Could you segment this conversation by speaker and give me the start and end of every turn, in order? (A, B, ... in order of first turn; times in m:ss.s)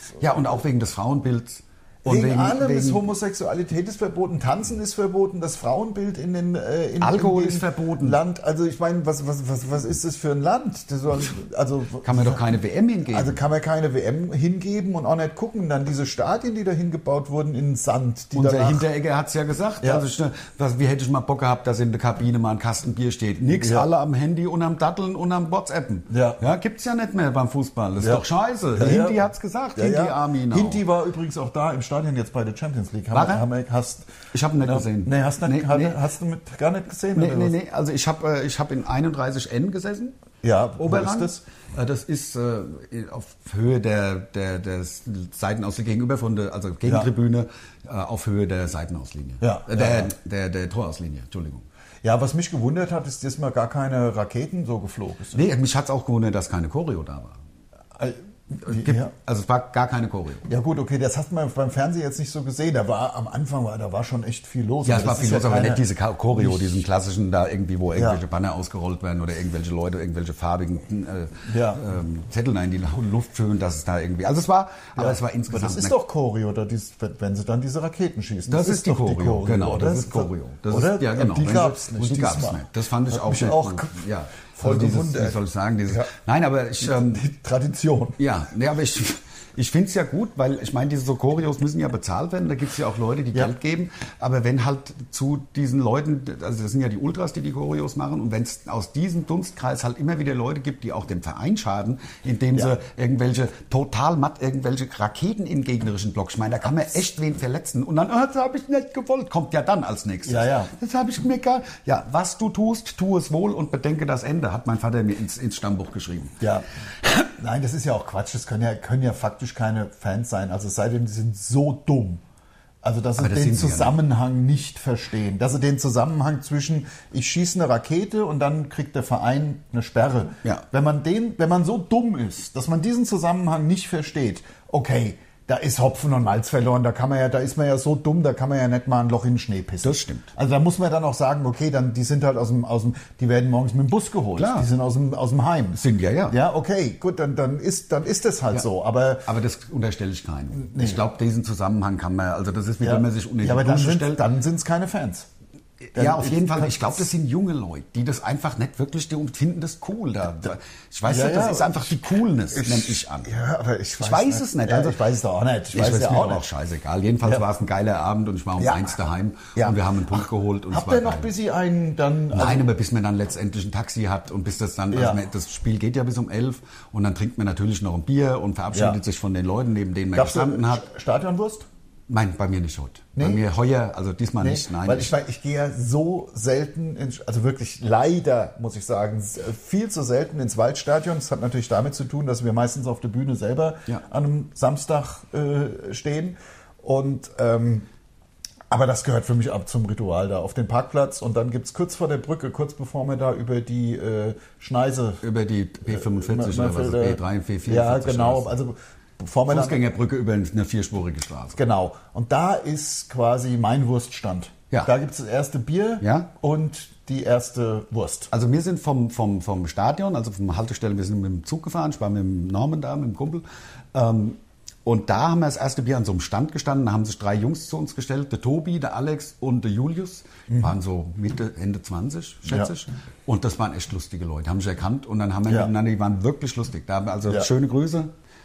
0:00.2-0:03.0 A
0:02.0-0:12.4 B
0:07.0-0:08.2 A
0:12.0-0:13.4 A
0:13.1-0:18.9 B
0:18.3-0:30.8 A
0:23.6-0:23.9 B
0:26.1-0:26.4 B
0:28.8-0:34.1 B
0:33.1-0:33.4 A
0:34.3-0:36.0 A
0:34.6-0:37.6 B
0:37.2-0:40.2 A
0:40.4-0:41.4 B
0:40.8-0:51.7 A
0:49.4-0:50.1 B
0:52.0-0:55.4 B
0:55.3-0:57.4 A
0:58.0-0:59.1 B
0:58.6-1:00.5 A
1:00.5-1:06.8 B
1:04.8-1:16.0 A
1:07.9-1:08.2 B
1:11.5-1:11.8 B
1:15.0-1:25.4 B
1:18.5-1:27.2 A
1:26.8-1:28.2 B
1:28.2-1:56.4 A
1:50.3-1:50.7 B
1:56.4-1:56.6 B
1:57.4-2:02.2 B
2:02.8-2:29.3 B
2:03.2-2:04.0 A
2:19.8-2:20.3 A
2:24.4-2:24.7 A
2:25.8-2:26.4 A
2:29.3-2:34.2 A
2:30.5-2:31.0 B
2:32.8-2:35.3 B
2:35.8-2:43.3 A
2:36.0-2:37.0 B
2:41.1-2:41.9 B
2:42.5-2:46.4 B
2:44.0-2:45.0 A
2:45.7-2:51.3 A
2:48.6-2:49.0 B
2:49.6-2:52.7 B
2:52.3-3:00.9 A
2:54.9-2:55.2 B
2:58.7-2:59.0 B
3:00.1-3:01.7 B
3:02.1-3:05.1 A
3:03.2-3:03.4 B
3:04.4-3:17.9 B
3:18.7-3:25.2 B
3:25.2-3:28.6 A
3:25.9-3:29.8 B
3:29.5-3:31.6 A
3:31.6-3:38.3 B
3:36.0-3:36.3 A
3:38.3-3:58.1 A
3:55.5-3:55.7 B